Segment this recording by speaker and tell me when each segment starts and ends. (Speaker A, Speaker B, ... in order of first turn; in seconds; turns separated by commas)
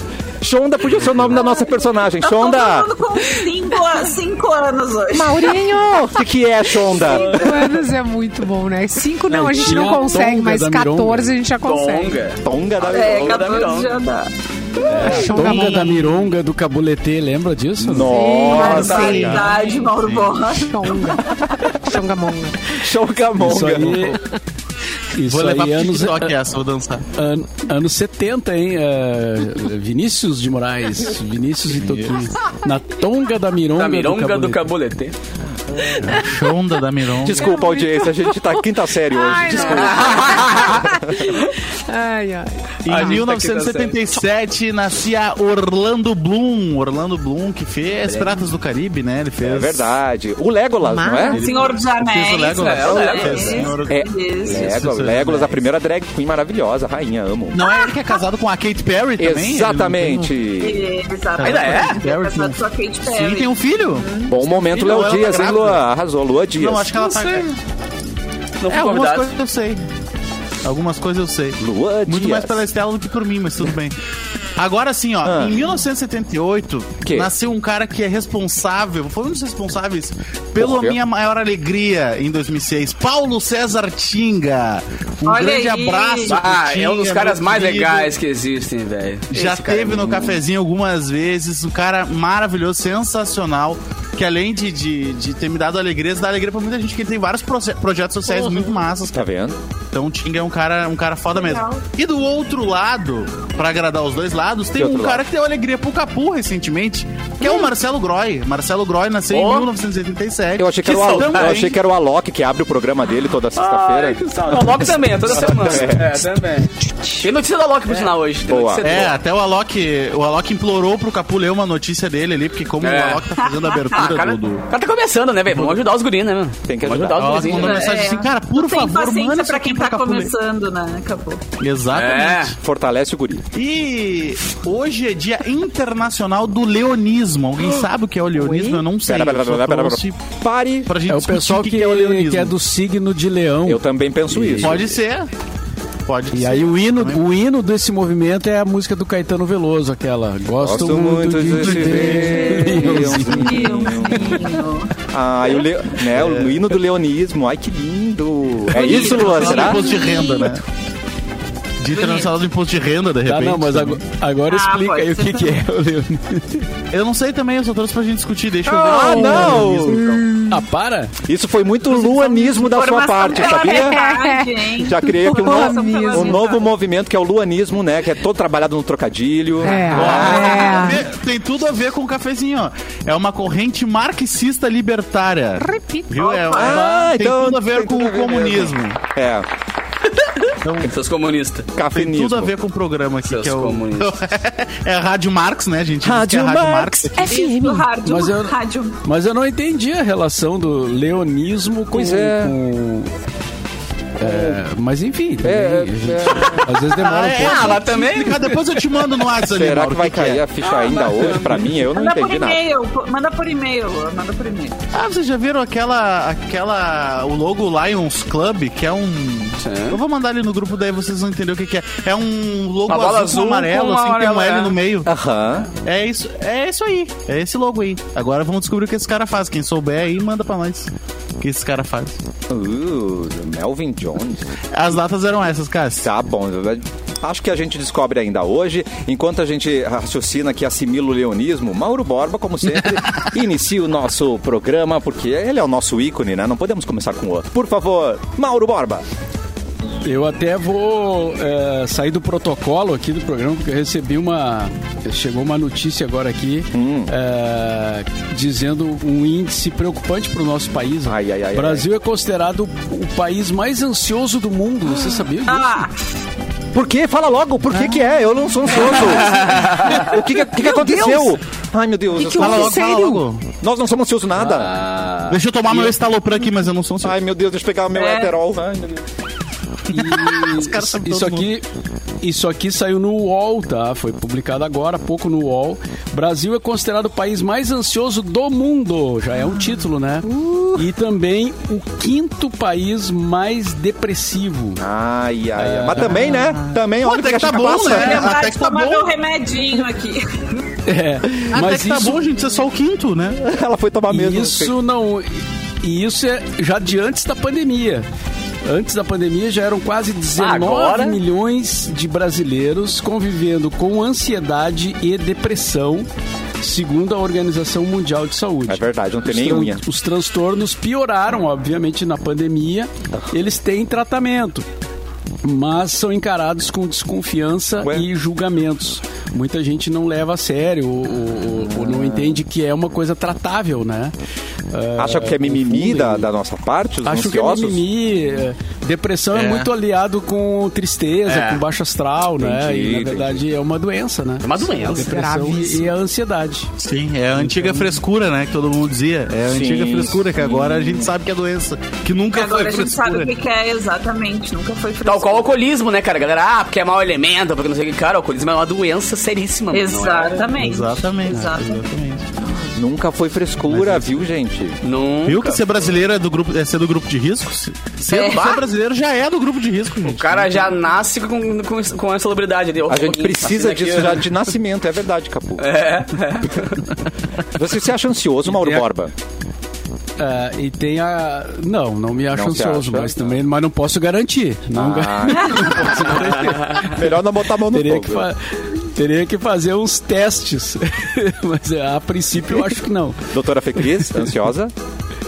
Speaker A: 0.4-2.9, Speaker B: 1.3-5.6, Speaker C: 5.1-6.2, Speaker A: 5.7-7.7, Speaker C: 6.8-12.2, Speaker D: 9.3-11.3, Speaker E: 11.6-14.0, Speaker A: 12.4-13.5, Speaker B: 12.9-14.3, Speaker D: 14.9-18.2, Speaker C: 15.0-16.2, Speaker F: 15.2-15.9, Speaker A: 17.8-19.6, Speaker C: 17.9-19.5, Speaker B: 18.4-21.2, Speaker E: 18.7-19.1, Speaker F: 20.0-20.4, Speaker C: 20.5-22.8, Speaker A: 22.7-24.2, Speaker D: 23.4-24.2, Speaker D: 25.1-26.3, Speaker F: 25.2-27.1, Speaker D: 27.1-34.7, Speaker F: 31.8-32.1, Speaker E: 33.8-35.1, Speaker C: 35.9-36.5, Speaker F: 36.0-37.5, Speaker A: 37.2-41.3, Speaker C: 37.3-43.2, Speaker E: 39.7-41.5, Speaker F: 42.9-50.0, Speaker E: 42.9-44.0, Speaker E: 48.1-48.5, Speaker A: 49.4-51.4, Speaker C: 50.8-51.4, Speaker F: 51.3-55.6, Speaker B: 51.3-54.7, Speaker E: 52.6-53.7, Speaker A: 53.9-57.6, Speaker F: 57.5-60.3, Speaker B: 57.6-58.0, Speaker A: 59.2-60.9, Speaker B: 60.6-64.4, Speaker F: 61.4-65.8, Speaker E: 61.4-62.0, Speaker A: 64.3-67.0, Speaker F: 66.6-67.6, Speaker E: 67.0-67.5, Speaker E: 68.6-69.3, Speaker F: 68.7-69.8, Speaker F: 70.6-74.0, Speaker A: 71.6-72.7, Speaker F: 74.6-88.1, Speaker A: 75.2-75.6, Speaker A: 77.0-77.3, Speaker A: 80.6-81.0, Speaker B: 85.3-86.4, Speaker E: 86.2-90.3, Speaker F: 89.3-99.2, Speaker A: 99.1-99.6, Speaker F: 99.9-111.8, Speaker B: 101.3-101.8, Speaker A: 104.8-105.2, Speaker E: 109.3-109.7, Speaker A: 110.6-116.3, Speaker E: 110.8-111.6, Speaker E: 113.6-119.1, Speaker A: 118.5-119.0, Speaker F: 118.8-124.6, Speaker E: 122.8-123.3, Speaker B: 123.4-123.9, Speaker E: 123.9-127.9, Speaker A: 126.7-127.8, Speaker F: 127.1-130.3, Speaker B: 127.6-131.4, Speaker F: 131.6-132.6, Speaker E: 131.9-132.6, Speaker A: 132.6-133.4, Speaker F: 133.5-140.2, Speaker C: 138.4-138.8, Speaker A: 139.1-140.9, Speaker F: 140.9-142.5, Speaker D: 141.1-144.7, Speaker A: 143.7-145.0, Speaker F: 144.6-145.3, Speaker F: 146.1-147.2, Speaker D: 146.3-154.4, Speaker A: 150.6-154.6, Speaker B: 152.4-154.9, Speaker A: 155.1-160.1, Speaker F: 156.1-156.7, Speaker B: 158.7-160.5, Speaker F: 158.7-160.7, Speaker F: 161.8-164.0, Speaker B: 161.9-162.3, Speaker D: 163.2-166.7, Speaker B: 164.5-165.6, Speaker F: 166.9-170.2, Speaker A: 168.7-170.2, Speaker C: 168.7-170.6, Speaker D: 169.3-169.7, Speaker D: 170.5-171.1, Speaker A: 171.2-174.0, Speaker B: 172.1-176.7, Speaker C: 173.6-174.5, Speaker A: 174.8-180.9, Speaker C: 175.0-176.6, Speaker C: 179.6-181.0, Speaker F: 179.9-189.0, Speaker C: 185.6-186.1, Speaker B: 186.2-186.9, Speaker A: 186.5-189.5, Speaker E: 190.1-191.7, Speaker F: 190.6-190.9, Speaker A: 191.7-192.5, Speaker F: 191.9-197.4, Speaker E: 193.2-194.2, Speaker A: 196.0-197.6, Speaker B: 197.2-199.0, Speaker C: 197.5-197.8, Speaker D: 198.0-203.1, Speaker A: 201.9-202.6, Speaker A: 204.2-204.6, Speaker D: 204.2-207.8, Speaker A: 205.4-206.8, Speaker F: 207.0-210.4, Speaker E: 207.2-208.8, Speaker A: 209.5-212.6, Speaker E: 210.7-211.3, Speaker B: 211.9-214.8, Speaker F: 214.9-225.1, Speaker E: 219.6-220.0, Speaker E: 222.9-224.8, Speaker A: 225.1-225.7, Speaker F: 225.8-232.2, Speaker A: 232.5-234.5, Speaker F: 234.7-236.1, Speaker A: 236.0-249.0, Speaker D: 250.0-265.7, Speaker A: 256.7-257.1, Speaker A: 261.1-261.9, Speaker B: 265.5-266.0, Speaker A: 266.7-272.9, Speaker C: 270.6-271.4, Speaker C: 272.2-273.2, Speaker F: 272.4-273.4, Speaker A: 273.6-274.8, Speaker D: 274.4-275.9, Speaker F: 275.3-277.2, Speaker A: 277.0-279.0, Speaker B: 277.9-278.3, Speaker F: 279.9-281.5, Speaker D: 279.9-281.7, Speaker D: 282.2-294.8, Speaker A: 294.8-298.4, Speaker D: 295.6-296.4, Speaker F: 296.2-299.1, Speaker B: 297.4-300.5, Speaker D: 300.9-302.2, Speaker F: 301.5-303.4, Speaker A: 303.4-304.8, Speaker D: 304.1-308.1, Speaker D: 308.6-316.1, Speaker E: 310.4-311.2, Speaker D: 316.6-324.7, Speaker A: 318.7-319.8, Speaker A: 323.1-323.4, Speaker D: 325.4-334.1, Speaker A: 327.8-328.1, Speaker A: 331.7-332.4, Speaker D: 334.7-336.3, Speaker A: 335.0-337.9, Speaker D: 337.0-346.7, Speaker F: 339.3-339.7, Speaker E: 341.3-341.6, Speaker A: 342.4-343.4, Speaker E: 344.4-345.1, Speaker C: 344.9-345.9, Speaker F: 346.8-353.3, Speaker D: 347.4-348.0, Speaker A: 349.5-351.1, Speaker B: 352.3-355.5, Speaker E: 355.1-360.5, Speaker B: 359.7-361.8, Speaker F: 360.6-362.3, Speaker A: 362.7-364.8, Speaker F: 363.7-364.2, Speaker E: 364.8-365.9, Speaker F: 365.2-370.8, Speaker E: 368.1-368.6, Speaker B: 368.1-368.6, Speaker E: 370.0-374.4, Speaker A: 372.9-375.7, Speaker E: 375.6-376.8, Speaker A: 377.5-379.1, Speaker D: 378.5-378.9, Speaker D: 380.2-387.0, Speaker A: 382.3-383.4, Speaker A: 384.8-388.3, Speaker B: 385.3-385.7, Speaker D: 387.7-393.3, Speaker A: 393.3-394.7